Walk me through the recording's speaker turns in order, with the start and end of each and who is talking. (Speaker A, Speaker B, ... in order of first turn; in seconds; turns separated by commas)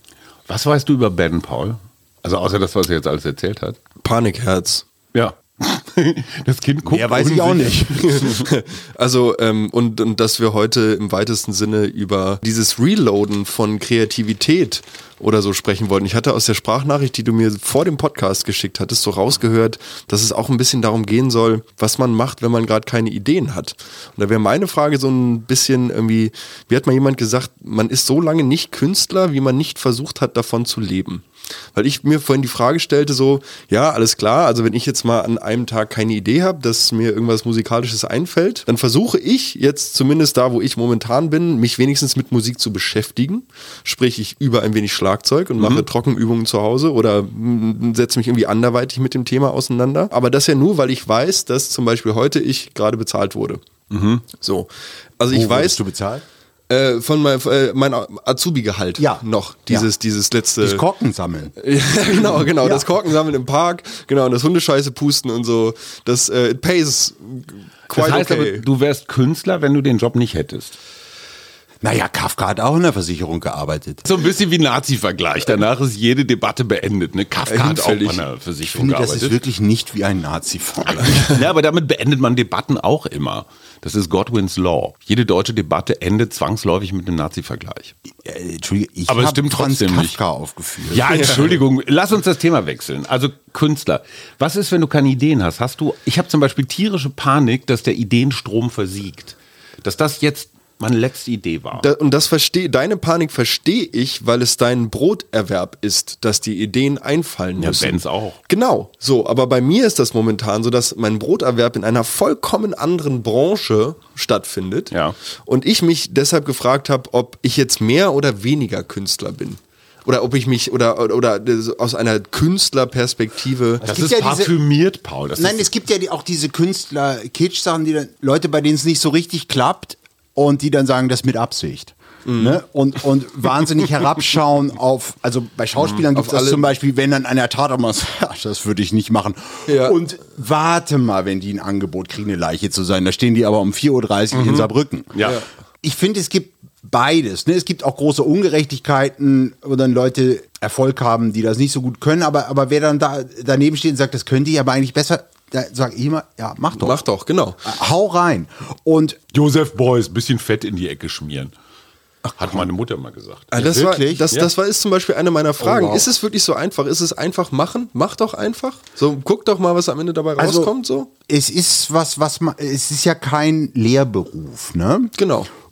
Speaker A: 0.5-3.8, Speaker B: 4.0-4.9, Speaker A: 5.1-8.4, Speaker C: 6.8-8.4, Speaker B: 8.0-53.6, Speaker A: 45.6-45.9, Speaker A: 53.9-54.2, Speaker B: 54.4-54.7, Speaker B: 55.2-55.8, Speaker C: 55.3-56.2, Speaker B: 56.7-60.8, Speaker C: 59.0-59.9, Speaker C: 60.6-61.5, Speaker B: 61.6-68.6, Speaker C: 62.5-62.9, Speaker A: 67.9-70.8, Speaker C: 71.8-74.0, Speaker A: 74.0-79.4, Speaker B: 77.5-78.2, Speaker C: 78.6-81.3, Speaker A: 81.0-87.9, Speaker C: 88.2-91.2, Speaker A: 89.1-90.2, Speaker A: 90.9-101.9, Speaker B: 101.8-114.9, Speaker A: 107.6-108.4, Speaker A: 114.9-115.2, Speaker B: 115.5-123.8, Speaker A: 123.8-125.7, Speaker C: 123.8-124.5, Speaker C: 125.4-145.2, Speaker B: 132.2-132.6, Speaker B: 136.1-136.7, Speaker B: 139.7-140.0, Speaker A: 144.3-145.4, Speaker C: 145.8-157.0, Speaker B: 156.8-157.6, Speaker C: 157.6-159.2, Speaker A: 159.3-161.5, Speaker C: 162.2-162.7, Speaker A: 162.4-163.6, Speaker B: 163.5-171.1, Speaker C: 163.5-164.3, Speaker C: 165.6-166.1, Speaker C: 170.4-170.7, Speaker C: 171.3-175.1, Speaker B: 175.2-175.5